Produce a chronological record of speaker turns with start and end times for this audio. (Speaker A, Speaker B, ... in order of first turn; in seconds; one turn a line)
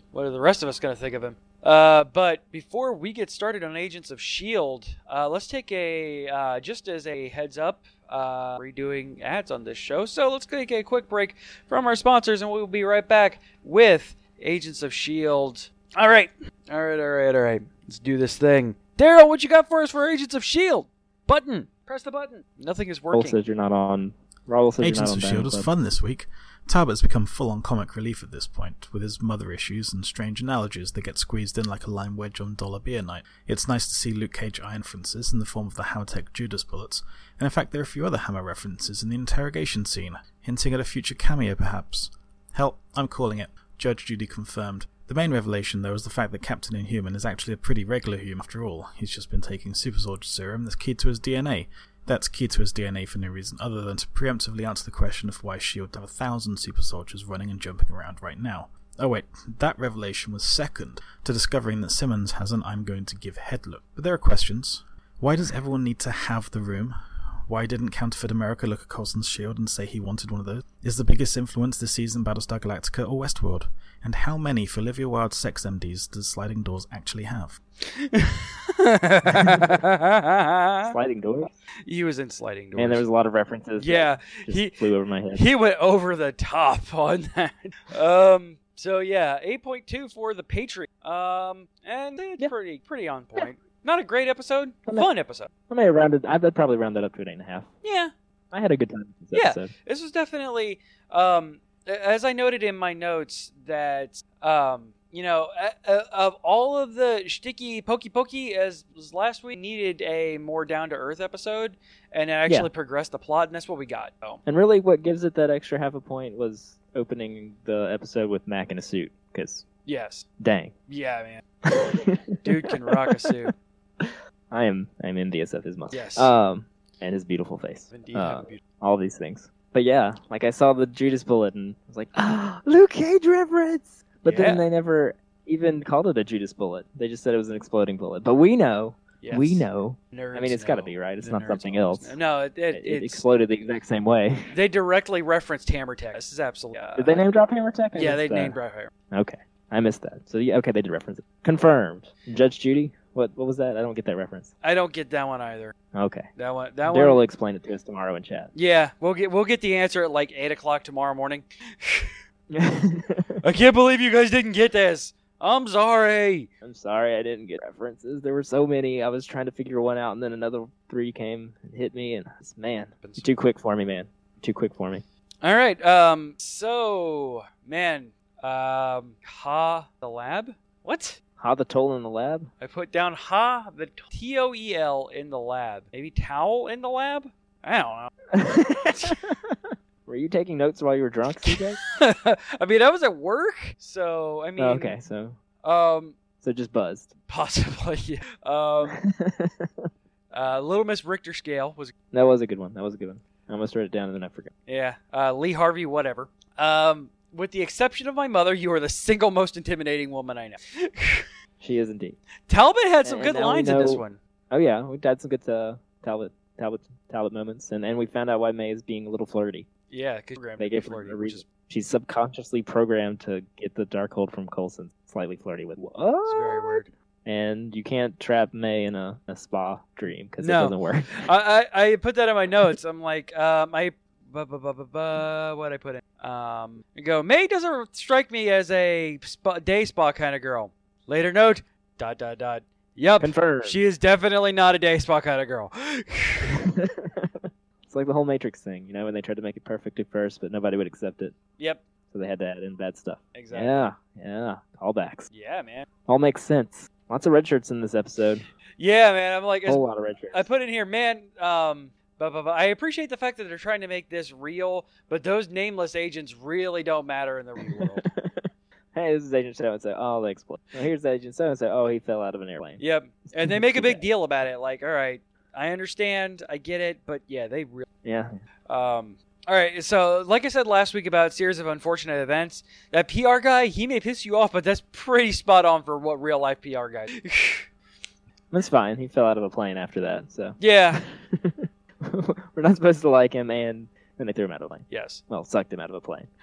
Speaker A: 0.1-23.4
Speaker B: 23.1-25.7
Speaker C: 24.8-67.0
Speaker C: 67.5-77.6
Speaker A: 77.9-81.0
Speaker B: 79.4-79.7
Speaker B: 80.8-81.6
Speaker A: 81.9-83.0
Speaker B: 82.8-85.5
Speaker A: 83.8-84.8
Speaker A: 85.3-95.5
Speaker B: 95.7-97.7
Speaker A: 97.8-98.1
Speaker B: 98.5-99.7
Speaker A: 99.3-114.4
Speaker B: 114.5-119.7
Speaker A: 119.9-120.2
Speaker B: 120.4-120.7
Speaker A: 120.9-121.4
Speaker B: 121.7-123.1
Speaker A: 122.4-123.5
Speaker B: 124.0-142.2
Speaker A: 125.9-126.3
Speaker A: 127.9-128.6
Speaker A: 134.2-134.7
Speaker A: 139.2-143.2
Speaker B: 142.7-144.5
Speaker A: 144.5-147.2
Speaker B: 146.9-148.6
Speaker A: 148.0-148.9
Speaker B: 149.1-154.5
Speaker A: 154.6-155.8
Speaker B: 155.9-156.3
Speaker A: 156.4-157.2
Speaker B: 156.9-158.5
Speaker A: 158.6-162.1
Speaker B: 162.5-163.4
Speaker A: 163.4-166.5
Speaker B: 166.6-175.0
Speaker A: 173.0-173.3
Speaker A: 175.4-181.2
Speaker B: 181.4-182.5
Speaker A: 182.6-188.1
Speaker B: 188.3-191.8
Speaker A: 189.0-189.2
Speaker A: 191.4-195.0
Speaker B: 194.6-195.4
Speaker A: 195.6-196.2
Speaker B: 196.4-197.1
Speaker A: 197.3-199.0
Speaker B: 198.9-199.9
Speaker A: 200.3-201.9
Speaker B: 202.1-204.5
Speaker A: 204.7-211.3
Speaker B: 211.6-212.2
Speaker A: 212.5-214.2
Speaker B: 213.0-219.7
Speaker A: 219.9-221.4
Speaker B: 220.6-231.2
Speaker A: 226.3-226.9
Speaker A: 230.4-246.6
Speaker B: 243.2-243.8
Speaker B: 246.5-251.3
Speaker B: 252.1-255.3
Speaker A: 253.3-253.9
Speaker A: 255.3-255.9
Speaker B: 256.1-258.4
Speaker A: 258.8-268.1
Speaker B: 259.7-260.5
Speaker B: 267.7-272.8
Speaker A: 272.8-277.9
Speaker B: 273.4-274.1
Speaker B: 278.0-278.4
Speaker A: 278.7-287.7
Speaker B: 288.5-296.3
Speaker A: 290.6-291.0
Speaker A: 294.9-295.2